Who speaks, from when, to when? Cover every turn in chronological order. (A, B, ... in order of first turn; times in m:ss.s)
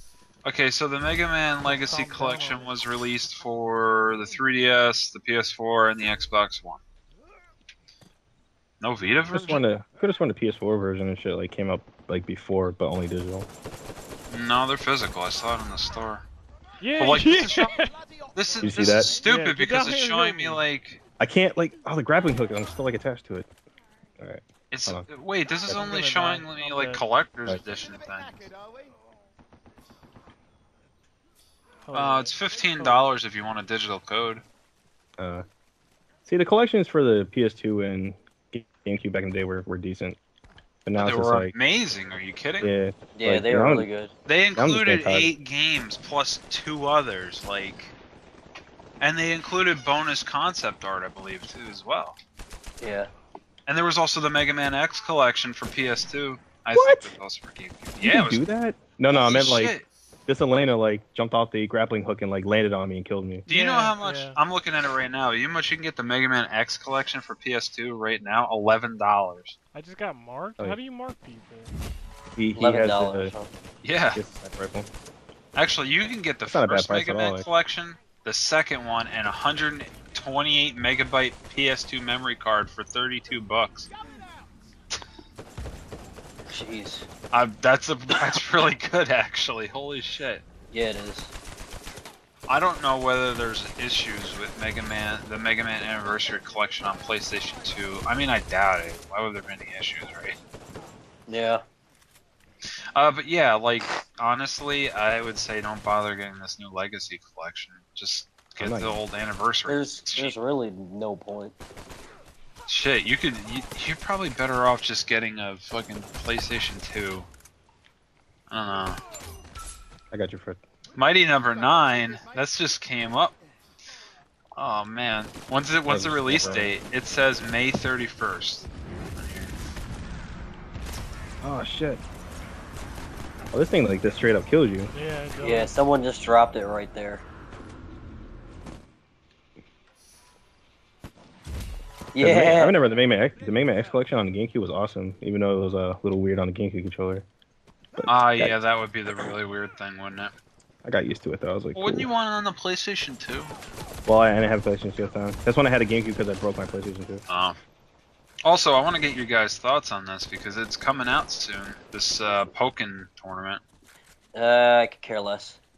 0:00.4-0:06.8 A
0:01.6-0:02.7 B
0:08.8-0:09.6 A
0:09.3-0:13.5 C
0:14.3-0:16.3 A
0:16.8-0:17.9 B
0:17.0-0:17.8 A
0:18.4-0:21.0 A
0:18.6-0:19.2 C
0:19.2-0:20.6 B
0:21.2-0:23.5 C
0:24.2-0:25.1 C
0:24.7-0:28.5 A
0:25.7-0:27.0 B
0:31.8-0:33.1 B
0:31.9-0:34.4 A
0:35.2-0:35.4 C
0:36.2-0:40.2 C
0:40.9-0:41.5 C
0:41.0-0:42.7 A
0:42.6-0:43.9 C
0:43.2-0:44.1 D
0:44.3-0:47.9 A
0:44.6-0:45.3 C
0:49.0-0:52.2 A
0:52.8-0:53.1 D
0:53.7-0:58.4 A
0:56.7-0:57.1 C
0:58.0-1:03.5 C
0:59.1-0:59.9 A
1:03.5-1:09.6 A
1:03.5-1:04.4 B
1:09.7-1:11.7 B
1:12.4-1:13.3 C
1:12.6-1:13.5 D
1:13.8-1:14.2 A
1:14.2-1:14.9 C
1:15.6-1:23.9 A
1:16.5-1:17.5 C
1:26.5-1:27.1 D
1:27.3-1:30.4 A
1:30.7-1:31.3 D
1:32.5-1:40.4 A
1:41.3-1:41.6 D
1:43.0-1:50.4 A
1:48.6-1:49.0 C
1:49.7-1:51.5 D
1:52.7-1:57.3 A
1:58.5-1:59.0 A
2:00.1-2:00.6 C
2:01.0-2:03.4 A
2:04.6-2:09.5 A
2:05.9-2:06.7 C
2:11.4-2:12.0 C
2:13.5-2:14.9 C
2:14.9-2:15.7 B
2:15.4-2:17.2 D
2:22.1-2:22.8 D
2:22.2-2:27.2 C
2:28.0-2:28.5 C
2:28.1-2:30.3 A
2:30.8-2:32.1 C
2:31.8-2:33.5 A
2:34.1-2:37.2 C
2:37.3-2:37.6 A
2:38.4-2:43.6 A
2:44.4-2:45.6 D